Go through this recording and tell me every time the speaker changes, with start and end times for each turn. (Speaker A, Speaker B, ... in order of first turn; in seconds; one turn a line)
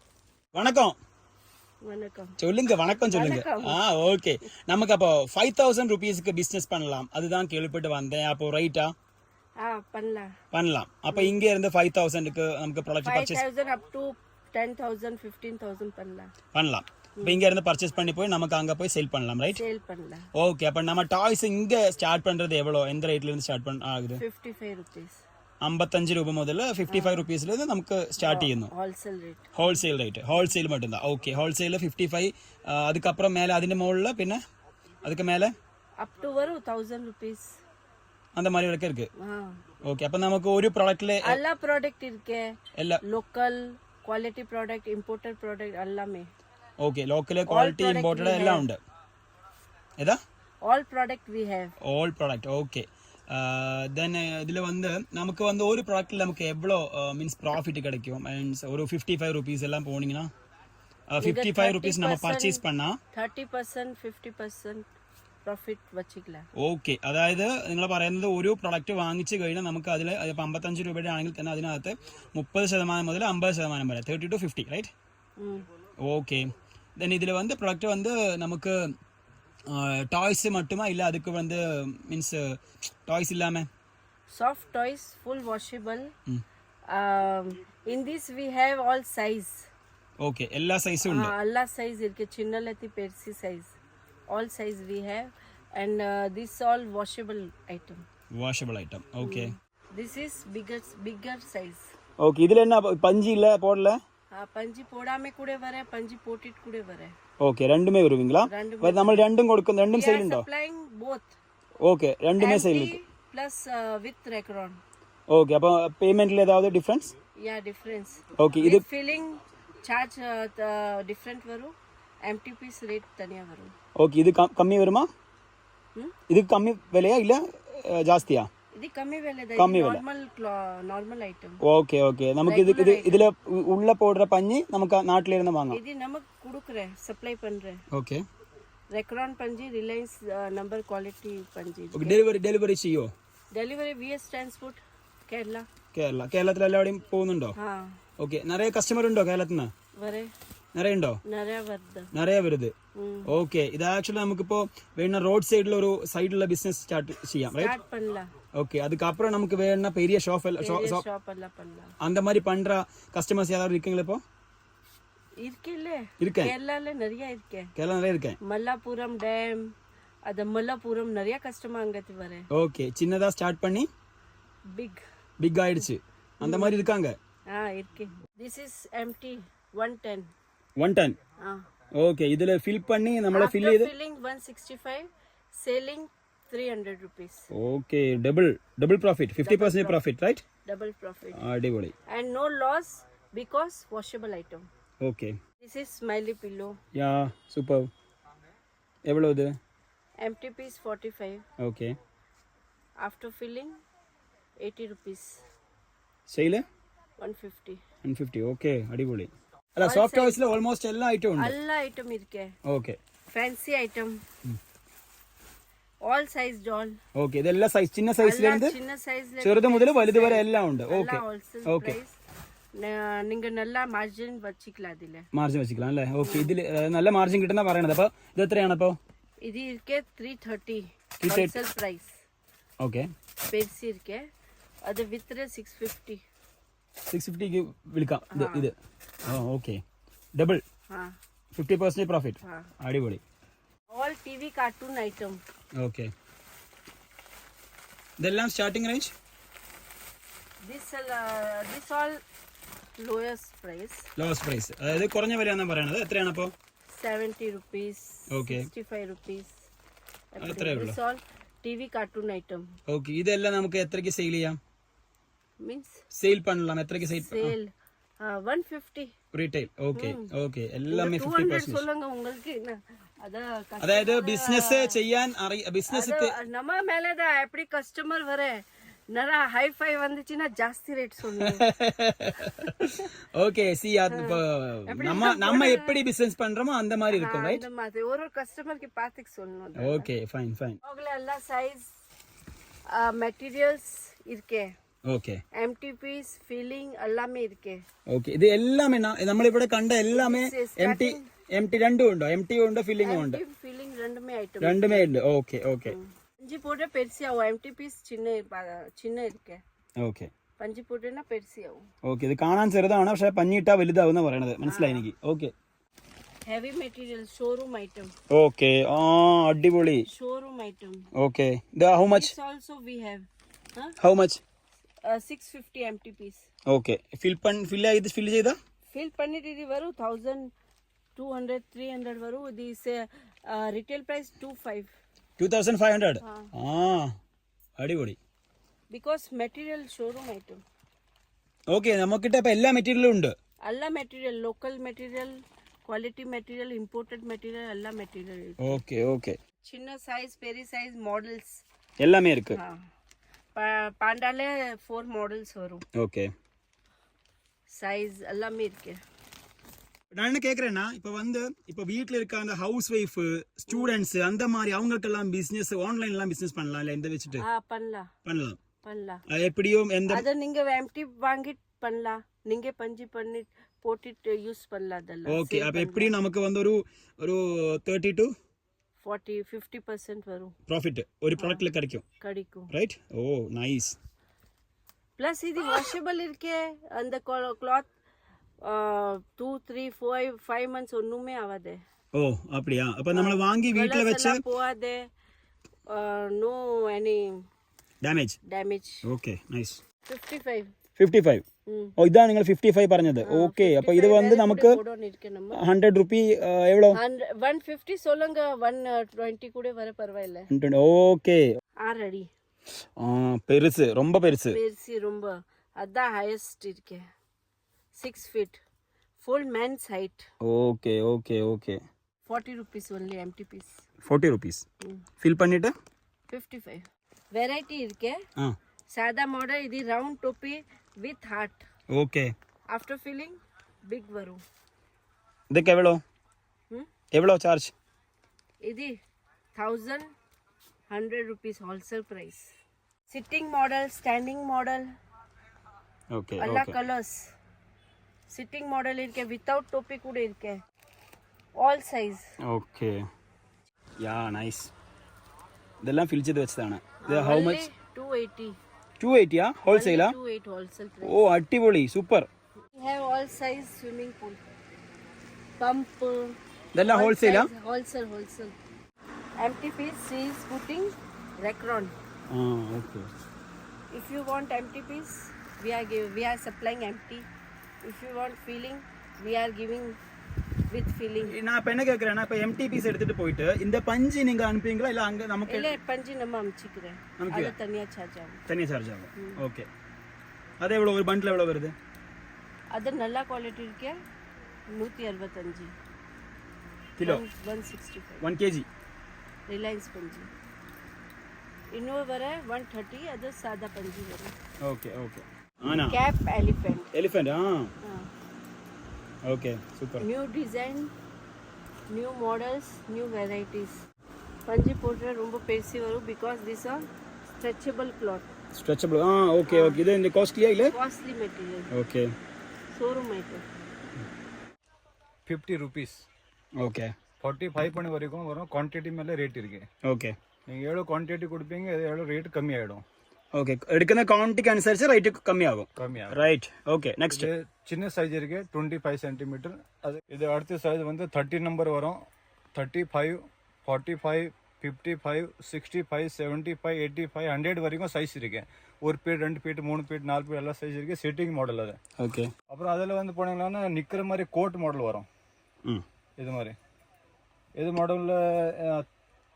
Speaker A: 0.5-0.9
Speaker B: 1.8-2.4
Speaker A: 2.4-8.9
Speaker B: 3.1-3.8
Speaker B: 9.6-10.3
Speaker A: 10.5-13.4
Speaker B: 13.0-16.3
Speaker A: 16.5-19.6
Speaker B: 17.2-17.4
Speaker B: 19.5-20.3
Speaker A: 20.4-24.2
Speaker B: 24.1-25.2
Speaker A: 25.6-28.7
Speaker B: 26.9-27.3
Speaker B: 28.2-29.5
Speaker A: 29.5-34.4
Speaker A: 35.0-35.5
Speaker B: 36.0-37.5
Speaker A: 38.4-39.1
Speaker B: 39.2-39.6
Speaker A: 39.8-41.4
Speaker B: 41.2-46.3
Speaker A: 42.8-43.0
Speaker A: 46.8-48.8
Speaker B: 47.5-48.7
Speaker B: 50.6-51.7
Speaker A: 51.8-60.3
Speaker A: 61.1-63.0
Speaker B: 61.2-62.6
Speaker B: 63.1-64.9
Speaker B: 65.4-66.4
Speaker A: 66.6-74.9
Speaker B: 75.4-75.7
Speaker A: 76.0-78.8
Speaker A: 79.7-83.7
Speaker B: 84.3-86.1
Speaker B: 86.9-89.7
Speaker A: 90.2-91.3
Speaker B: 91.0-93.7
Speaker B: 94.3-98.0
Speaker A: 98.3-99.5
Speaker B: 99.2-101.9
Speaker A: 102.2-104.0
Speaker B: 104.3-107.1
Speaker A: 107.4-110.5
Speaker B: 108.4-109.2
Speaker B: 109.9-111.3
Speaker A: 111.8-113.0
Speaker B: 112.4-114.8
Speaker A: 115.3-117.1
Speaker B: 117.4-121.7
Speaker A: 118.4-118.8
Speaker B: 122.2-123.7
Speaker A: 124.0-125.1
Speaker A: 126.3-128.5
Speaker B: 128.7-131.6
Speaker A: 129.6-130.0
Speaker A: 131.6-135.8
Speaker B: 132.4-133.3
Speaker B: 135.7-137.8
Speaker A: 137.9-138.2
Speaker B: 138.9-142.2
Speaker A: 141.9-143.1
Speaker B: 143.5-145.7
Speaker A: 145.9-147.6
Speaker B: 147.6-148.0
Speaker A: 148.2-149.7
Speaker B: 149.9-150.3
Speaker A: 150.7-151.2
Speaker B: 151.2-152.1
Speaker A: 152.1-152.7
Speaker B: 152.9-153.3
Speaker A: 153.3-157.7
Speaker B: 157.5-158.3
Speaker A: 158.5-161.0
Speaker B: 160.6-161.9
Speaker A: 162.0-164.2
Speaker B: 165.4-167.7
Speaker A: 166.2-166.5
Speaker A: 167.8-168.4
Speaker B: 168.4-169.7
Speaker B: 170.2-172.5
Speaker A: 172.5-173.9
Speaker B: 174.7-175.0
Speaker A: 175.4-177.2
Speaker B: 176.4-176.9
Speaker B: 177.5-180.3
Speaker A: 180.8-181.2
Speaker B: 181.4-181.6
Speaker A: 181.9-183.9
Speaker B: 183.3-187.5
Speaker A: 187.5-190.4
Speaker B: 189.4-190.0
Speaker B: 190.6-191.4
Speaker A: 191.4-191.9
Speaker B: 192.1-194.7
Speaker A: 195.0-195.4
Speaker B: 195.6-196.8
Speaker A: 196.9-197.9
Speaker A: 199.0-199.6
Speaker B: 200.2-201.4
Speaker A: 201.6-202.0
Speaker B: 203.0-203.8
Speaker B: 204.6-205.4
Speaker A: 206.3-206.6
Speaker B: 207.2-207.8
Speaker A: 208.0-211.6
Speaker B: 209.8-210.5
Speaker B: 211.4-212.5
Speaker A: 212.7-213.0
Speaker B: 213.3-214.2
Speaker B: 216.0-217.0
Speaker A: 217.2-218.7
Speaker B: 218.2-222.2
Speaker A: 219.4-222.0
Speaker B: 222.7-225.3
Speaker A: 225.3-229.0
Speaker B: 226.2-226.5
Speaker B: 229.4-232.1
Speaker A: 231.2-231.5
Speaker A: 232.8-233.1
Speaker B: 233.5-234.2
Speaker B: 234.8-236.2
Speaker A: 237.1-238.7
Speaker B: 238.3-238.7
Speaker A: 239.2-239.8
Speaker A: 240.3-240.6
Speaker B: 240.9-241.2
Speaker A: 241.5-243.2
Speaker B: 242.4-242.7
Speaker B: 243.9-245.4
Speaker A: 245.8-246.1
Speaker A: 248.2-249.1
Speaker B: 250.6-252.2
Speaker B: 253.0-254.1
Speaker A: 254.2-256.5
Speaker B: 256.9-259.6
Speaker A: 258.3-258.7
Speaker B: 260.3-262.7
Speaker A: 260.4-261.0
Speaker A: 262.9-264.6
Speaker B: 265.6-266.0
Speaker A: 266.1-267.6
Speaker B: 267.0-269.1
Speaker A: 269.3-271.8
Speaker B: 269.9-270.3
Speaker B: 270.9-275.0
Speaker A: 273.8-276.3
Speaker B: 275.9-281.7
Speaker A: 281.4-287.6
Speaker B: 282.4-283.1
Speaker B: 284.1-286.0
Speaker B: 287.1-290.1
Speaker A: 289.8-290.8
Speaker B: 290.8-291.9
Speaker B: 292.9-294.7
Speaker A: 295.0-295.4
Speaker B: 295.5-297.8
Speaker A: 298.1-303.4
Speaker B: 300.1-301.2
Speaker B: 303.0-305.1
Speaker A: 304.6-305.9
Speaker B: 305.9-309.6
Speaker A: 310.0-310.3
Speaker B: 310.6-311.9
Speaker A: 312.1-315.5
Speaker B: 314.6-315.0
Speaker B: 316.4-318.1
Speaker A: 318.3-320.1
Speaker B: 320.1-321.1
Speaker A: 321.1-322.3
Speaker B: 322.0-323.9
Speaker A: 324.0-324.4
Speaker B: 325.0-326.4
Speaker A: 326.7-328.6
Speaker B: 328.9-330.5
Speaker B: 331.1-334.9
Speaker A: 335.4-337.1
Speaker B: 336.2-336.5
Speaker A: 337.8-338.2
Speaker B: 338.9-340.6
Speaker A: 341.7-343.3
Speaker B: 343.6-348.8
Speaker A: 348.6-349.4
Speaker B: 349.6-351.6
Speaker A: 352.0-352.6
Speaker B: 352.5-352.8
Speaker B: 353.5-355.8
Speaker A: 355.9-356.3
Speaker B: 357.7-359.0
Speaker A: 360.1-367.4
Speaker B: 363.7-364.0
Speaker B: 367.4-368.1
Speaker A: 368.2-368.6
Speaker B: 368.8-369.2
Speaker A: 369.3-370.3
Speaker B: 370.1-376.1
Speaker A: 375.3-378.3
Speaker B: 379.0-380.5
Speaker A: 380.7-382.0
Speaker B: 381.4-381.6
Speaker B: 382.2-382.7
Speaker A: 382.7-384.0
Speaker B: 385.2-387.9
Speaker B: 388.6-391.8
Speaker A: 392.1-394.4
Speaker B: 393.1-395.1
Speaker B: 395.9-397.4
Speaker A: 398.0-398.4
Speaker B: 398.4-399.0
Speaker A: 399.0-399.8
Speaker B: 400.0-400.7
Speaker A: 401.0-401.4
Speaker B: 401.7-401.9
Speaker A: 402.0-404.8
Speaker B: 403.2-405.6
Speaker A: 405.5-407.0
Speaker B: 406.9-410.5
Speaker A: 410.5-411.4
Speaker B: 411.8-412.3
Speaker A: 413.0-414.6
Speaker B: 414.5-417.1
Speaker B: 417.9-418.6
Speaker B: 419.2-420.3
Speaker A: 420.4-421.8
Speaker B: 422.2-423.8
Speaker A: 424.0-424.6
Speaker A: 425.2-425.7
Speaker B: 426.3-428.2
Speaker B: 428.9-431.6
Speaker A: 431.9-432.3
Speaker B: 432.7-434.4
Speaker A: 435.5-436.0
Speaker A: 437.1-437.7
Speaker B: 438.6-438.9
Speaker B: 439.5-440.1
Speaker B: 440.9-442.5
Speaker B: 443.1-444.9
Speaker A: 446.1-446.8
Speaker B: 446.4-447.2
Speaker B: 448.3-450.6
Speaker B: 451.6-452.2
Speaker A: 452.4-453.0
Speaker A: 454.0-454.7
Speaker A: 455.8-457.7
Speaker B: 457.0-458.6
Speaker A: 459.0-460.1
Speaker B: 459.6-461.2
Speaker A: 461.0-462.3
Speaker B: 462.7-464.4
Speaker B: 465.6-468.6
Speaker A: 466.7-467.5
Speaker B: 469.4-471.9
Speaker A: 472.3-473.1
Speaker B: 473.9-477.3
Speaker B: 477.8-480.0
Speaker B: 480.7-481.3
Speaker A: 481.2-485.8
Speaker B: 485.5-488.4
Speaker A: 487.2-487.5
Speaker A: 488.5-489.7
Speaker B: 489.1-489.4
Speaker A: 490.6-491.7
Speaker B: 492.7-494.0
Speaker B: 494.7-495.7
Speaker A: 497.0-497.2
Speaker B: 497.0-498.2
Speaker A: 498.2-498.7
Speaker B: 499.5-500.3
Speaker B: 501.7-504.3
Speaker A: 504.6-506.0
Speaker B: 505.9-506.9
Speaker A: 506.9-507.7
Speaker B: 507.8-508.1
Speaker A: 509.2-510.1
Speaker B: 510.0-510.9
Speaker B: 511.9-513.8
Speaker B: 514.5-518.3
Speaker A: 518.5-520.7
Speaker B: 519.5-519.8
Speaker B: 520.6-521.7
Speaker A: 521.7-522.1
Speaker B: 522.7-523.4
Speaker C: 525.3-526.0
Speaker A: 526.6-526.9
Speaker C: 527.2-529.7
Speaker A: 529.8-530.1
Speaker C: 530.5-532.8
Speaker A: 533.3-537.3
Speaker C: 535.8-536.3
Speaker C: 537.1-542.0
Speaker C: 542.5-551.8
Speaker A: 552.0-552.3
Speaker C: 552.5-555.1
Speaker C: 556.2-556.5
Speaker C: 557.6-558.9